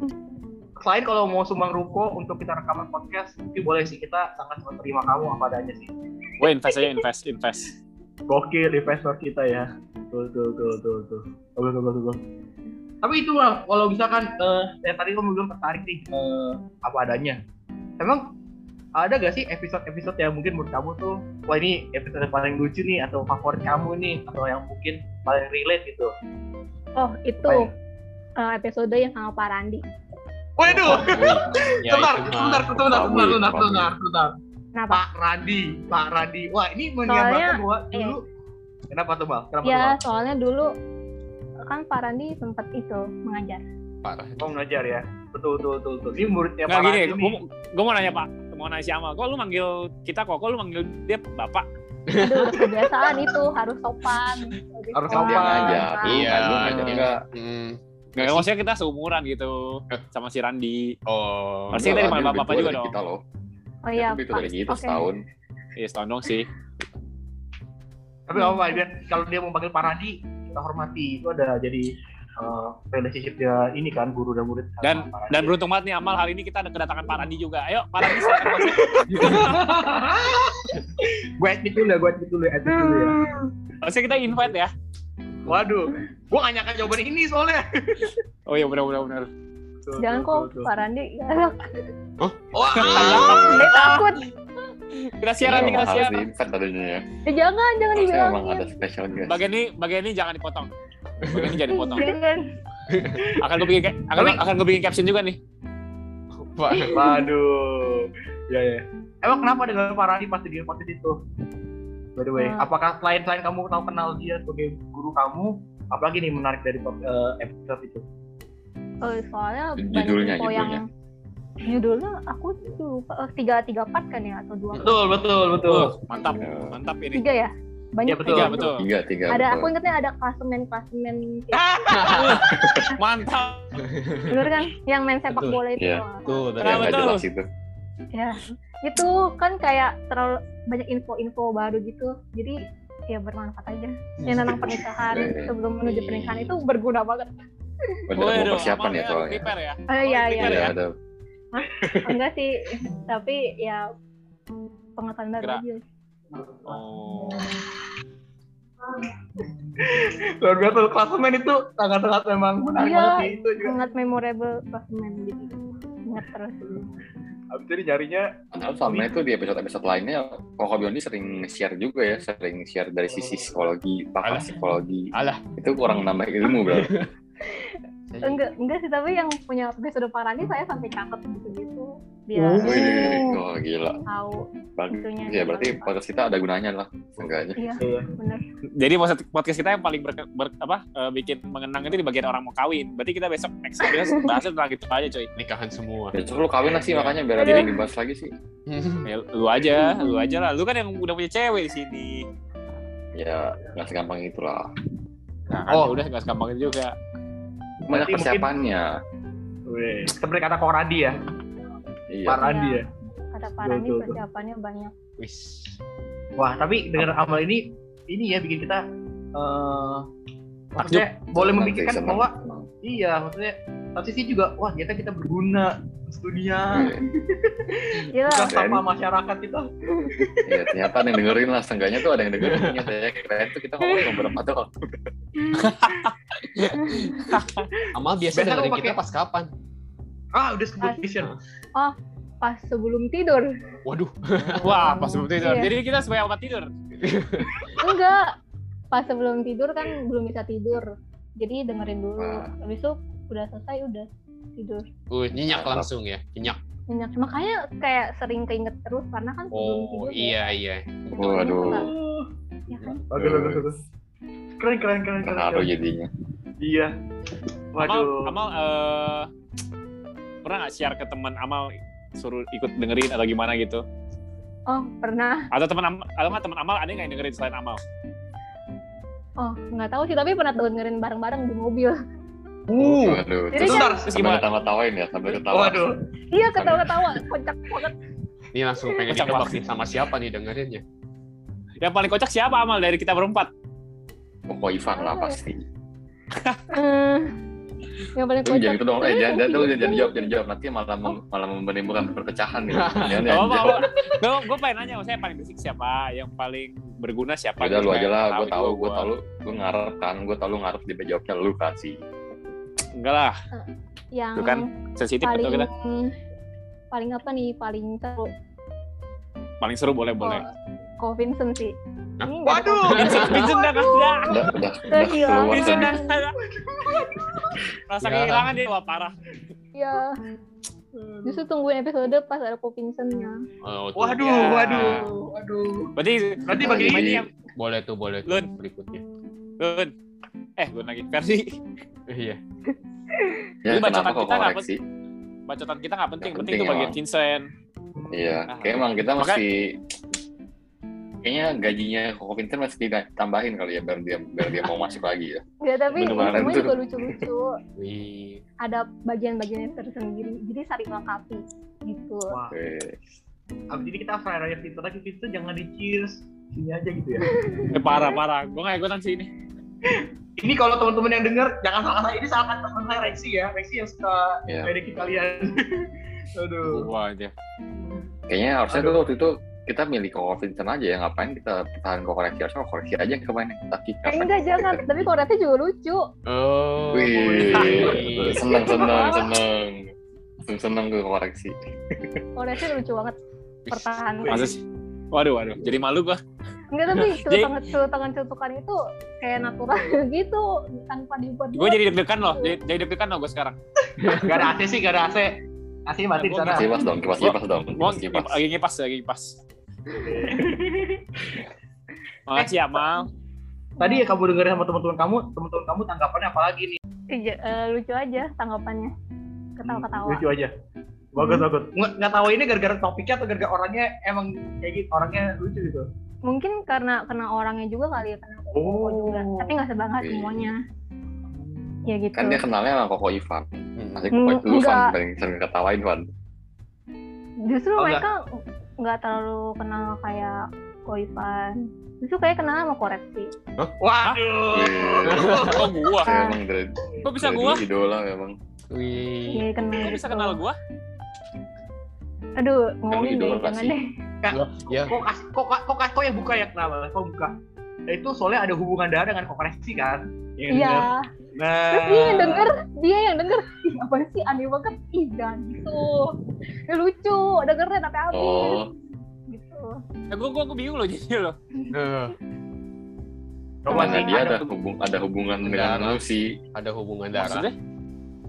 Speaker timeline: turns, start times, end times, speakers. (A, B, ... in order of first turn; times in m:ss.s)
0:00.8-0:05.9 A
0:06.4-0:07.7 B
0:08.3-0:12.2 A
0:13.0-0:17.4 A
0:18.0-0:18.2 A
0:19.0-0:26.1 A
0:27.0-0:27.7 C
0:28.4-0:29.8 C
0:30.6-0:34.4 A
0:30.7-0:32.8 D
0:32.7-0:33.9 E
0:34.8-0:35.0 C
0:34.9-0:38.2 A
0:37.1-0:38.2 C
0:38.9-0:40.0 A
0:39.6-0:40.7 C
0:41.7-0:43.6 C
0:44.0-0:44.5 D
0:44.4-0:47.4 A
0:46.7-0:51.7 B
0:52.1-0:53.1 D
0:52.2-0:56.2 C
0:54.9-0:55.9 A
0:55.1-0:57.2 E
0:56.0-0:57.8 D
0:56.6-0:57.0 A
0:58.2-1:00.9 B
1:01.1-1:01.8 D
1:01.7-1:02.9 B
1:01.7-1:03.2 E
1:03.8-1:05.0 C
1:04.0-1:05.2 E
1:05.8-1:06.5 B
1:08.3-1:15.5 A
1:08.4-1:08.7 C
1:14.8-1:19.6 B
1:18.0-1:23.2 A
1:22.7-1:23.5 C
1:23.8-1:24.7 B
1:25.4-1:28.2 A
1:28.5-1:29.3 B
1:29.8-1:30.7 A
1:30.0-1:31.9 C
1:32.2-1:32.9 D
1:32.5-1:34.0 A
1:32.7-1:34.1 B
1:32.8-1:33.7 E
1:33.4-1:34.3 C
1:34.9-1:36.2 B
1:35.4-1:37.0 E
1:37.3-1:38.7 C
1:37.9-1:39.4 E
1:39.3-1:40.7 B
1:41.2-1:41.6 D
1:41.2-1:42.1 B
1:41.7-1:42.5 C
1:42.9-1:43.3 D
1:43.2-1:43.5 A
1:43.4-1:45.4 B
1:44.2-1:44.4 A
1:46.4-1:47.2 D
1:46.7-1:47.3 C
1:46.9-1:51.2 A
1:52.2-1:58.0 A
1:52.4-1:52.7 C
1:59.0-2:00.9 C
1:59.8-2:00.8 E
2:01.6-2:05.0 C
2:04.8-2:05.9 A
2:05.6-2:07.2 B
2:06.4-2:06.8 E
2:07.1-2:08.7 C
2:08.1-2:08.6 A
2:08.3-2:08.8 B
2:08.6-2:09.7 E
2:09.3-2:11.6 C
2:11.5-2:12.6 A
2:11.9-2:12.4 D
2:12.1-2:13.8 B
2:12.5-2:12.9 E
2:13.8-2:14.5 D
2:14.3-2:16.6 C
2:15.3-2:15.6 D
2:15.8-2:16.0 E
2:16.3-2:17.1 D
2:16.6-2:17.3 B
2:16.6-2:17.5 E
2:18.1-2:22.6 C
2:23.1-2:27.3 C
2:24.2-2:24.8 D
2:24.8-2:25.5 E
2:25.8-2:26.6 D
2:28.1-2:29.5 E
2:28.2-2:30.7 B
2:29.9-2:30.7 C
2:30.4-2:31.0 E
2:31.5-2:33.9 C
2:31.8-2:32.1 E
2:35.0-2:35.8 C
2:36.5-2:37.6 A
2:36.6-2:37.5 B
2:38.9-2:43.8 A
2:42.8-2:46.6 C
2:46.6-2:46.9 A
2:47.5-2:48.3 A
2:48.5-2:57.0 E
2:48.8-2:49.2 A
2:53.1-2:53.6 A
2:54.2-2:54.6 D
2:55.1-2:55.4 D
2:56.6-2:57.1 D
2:57.4-3:03.3 C
2:58.1-2:58.4 D
3:02.4-3:03.4 A
3:02.6-3:04.0 E
3:04.1-3:05.9 C
3:04.8-3:07.6 E
3:07.6-3:08.4 C
3:07.8-3:08.1 A
3:08.8-3:15.3 B
3:15.4-3:16.2 D
3:16.1-3:18.3 E
3:17.4-3:17.8 C
3:18.7-3:19.1 D
3:19.0-3:22.3 B
3:19.8-3:20.3 C
3:23.2-3:24.7 E
3:25.5-3:27.0 B
3:25.7-3:26.0 A
3:27.8-3:28.5 A
3:27.9-3:28.9 E
3:29.7-3:31.2 A
3:32.1-3:32.4 E
3:32.3-3:32.9 A
3:32.4-3:34.9 C
3:33.6-3:34.2 A
3:35.2-3:35.8 D
3:36.4-3:38.8 A
3:39.4-3:40.1 A
3:40.7-3:42.3 A
3:40.8-3:41.1 B
3:41.4-3:42.7 E
3:42.8-3:50.6 A
3:46.7-3:47.0 E
3:48.1-3:48.6 C
3:48.5-3:48.8 E
3:50.5-3:54.7 E
3:52.4-3:52.8 D
3:53.8-3:54.2 C
3:55.4-3:55.7 C
3:55.6-3:57.7 B
3:56.8-3:57.4 C
3:58.0-3:59.5 D
3:58.3-3:59.0 A
4:00.3-4:01.3 A
4:01.8-4:03.5 C
4:03.9-4:05.0 D
4:04.6-4:06.7 B
4:04.8-4:05.8 C
4:07.0-4:07.6 D
4:07.8-4:08.3 C
4:08.9-4:14.9 C
4:12.2-4:12.5 E
4:15.1-4:16.6 D
4:15.5-4:15.9 E
4:16.9-4:20.4 C
4:19.5-4:21.5 D
4:21.1-4:21.9 E
4:21.2-4:21.9 C
4:21.6-4:22.3 A
4:22.7-4:23.0 C
4:22.7-4:23.0 D
4:23.1-4:23.8 A
4:23.2-4:23.7 E
4:24.6-4:25.7 A
4:25.2-4:26.1 E
4:26.6-4:26.9 A
4:27.7-4:28.3 A
4:27.8-4:29.3 B
4:30.4-4:33.8 B
4:34.7-4:35.5 C
4:35.5-4:37.8 B
4:39.4-4:42.0 C
4:42.7-4:44.4 A
4:42.8-4:47.1 E
4:43.5-4:44.0 C
4:44.1-4:44.4 B
4:45.3-4:46.0 A
4:46.3-4:47.9 C
4:48.5-4:50.8 D
4:49.1-4:49.6 B
4:51.8-4:53.5 B
4:54.5-4:55.6 E
4:54.9-4:55.4 C
4:56.3-4:56.6 B
4:56.7-4:57.3 C
4:58.2-5:00.3 C
4:58.4-5:03.8 E
5:02.7-5:03.4 D
5:03.3-5:09.1 B
5:07.6-5:12.0 E
5:13.0-5:13.4 B
5:13.5-5:14.7 C
5:14.4-5:15.7 B
5:15.2-5:16.2 C
5:16.9-5:18.3 C
5:19.6-5:20.4 B
5:20.2-5:20.5 C
5:21.0-5:21.7 C
5:22.2-5:23.5 D
5:22.3-5:26.2 C
5:22.4-5:23.2 A
5:23.0-5:24.4 B
5:24.3-5:26.0 E
5:25.5-5:26.4 B
5:26.5-5:27.6 A
5:27.9-5:29.2 B
5:28.0-5:28.5 D
5:29.8-5:30.2 C
5:31.0-5:31.4 A
5:31.2-5:33.4 C
5:33.6-5:34.6 D
5:34.0-5:35.9 A
5:34.2-5:35.1 B
5:34.7-5:35.2 C
5:36.0-5:37.3 B
5:36.5-5:37.1 A
5:36.5-5:37.3 E
5:37.6-5:39.0 D
5:39.6-5:39.9 B
5:40.6-5:41.6 B
5:42.1-5:42.4 D
5:43.1-5:43.4 C
5:43.6-5:44.8 E
5:43.7-5:44.6 B
5:45.5-5:47.5 B
5:46.2-5:47.0 E
5:48.0-5:48.2 A
5:48.1-5:49.8 E
5:48.5-5:49.4 B
5:51.2-5:57.2 E
5:55.6-5:57.5 C
5:57.8-5:58.4 D
5:58.6-6:02.4 C
6:02.3-6:02.6 A
6:02.5-6:03.2 E
6:03.7-6:07.4 A
6:07.2-6:08.0 C
6:07.7-6:09.3 B
6:09.8-6:16.9 A
6:14.5-6:14.7 E
6:16.7-6:17.3 B
6:17.8-6:18.1 A
6:18.3-6:24.8 E
6:18.7-6:19.0 A
6:24.1-6:26.1 C
6:26.3-6:28.5 D
6:26.9-6:29.9 E
6:27.1-6:29.1 A
6:28.5-6:29.3 C
6:30.5-6:32.2 E
6:32.4-6:33.2 C
6:33.7-6:34.0 D
6:33.7-6:34.5 C
6:34.3-6:34.6 B
6:35.1-6:36.2 B
6:36.7-6:42.6 C
6:37.0-6:37.6 B
6:41.5-6:43.6 B
6:44.0-6:44.3 D
6:44.0-6:46.7 A
6:46.2-6:49.4 B
6:46.4-6:48.4 E
6:50.0-6:51.0 A
6:52.3-6:53.1 B
6:53.8-6:54.1 C
6:53.8-6:56.8 A
6:57.1-6:58.9 C
6:59.6-7:00.2 C
6:59.6-7:00.5 A
7:01.1-7:05.9 A
7:01.2-7:01.5 C
7:06.3-7:10.6 C
7:08.5-7:09.5 A
7:10.0-7:10.5 E
7:11.3-7:11.8 A
7:11.8-7:12.4 C
7:12.1-7:16.1 E
7:13.8-7:14.1 D
7:14.1-7:14.9 C
7:17.4-7:23.3 C
7:17.8-7:18.1 A
7:23.8-7:25.7 A
7:24.5-7:28.4 E
7:25.1-7:25.6 D
7:25.3-7:26.1 B
7:26.1-7:26.4 C
7:27.0-7:27.6 B
7:28.7-7:29.5 D
7:29.3-7:30.4 C
7:29.8-7:30.6 B
7:32.4-7:33.9 C
7:32.9-7:33.8 E
7:34.2-7:37.3 A
7:34.3-7:35.0 D
7:37.9-7:42.5 A
7:40.5-7:41.1 C
7:41.7-7:46.2 C
7:46.7-7:48.8 C
7:48.1-7:48.7 E
7:49.3-7:49.8 C
7:50.1-7:51.4 B
7:51.7-7:52.2 D
7:53.6-7:54.4 A
7:53.7-7:56.3 E
7:53.7-7:54.1 C
7:55.4-7:56.0 D
7:56.5-7:57.5 D
7:57.2-7:57.6 B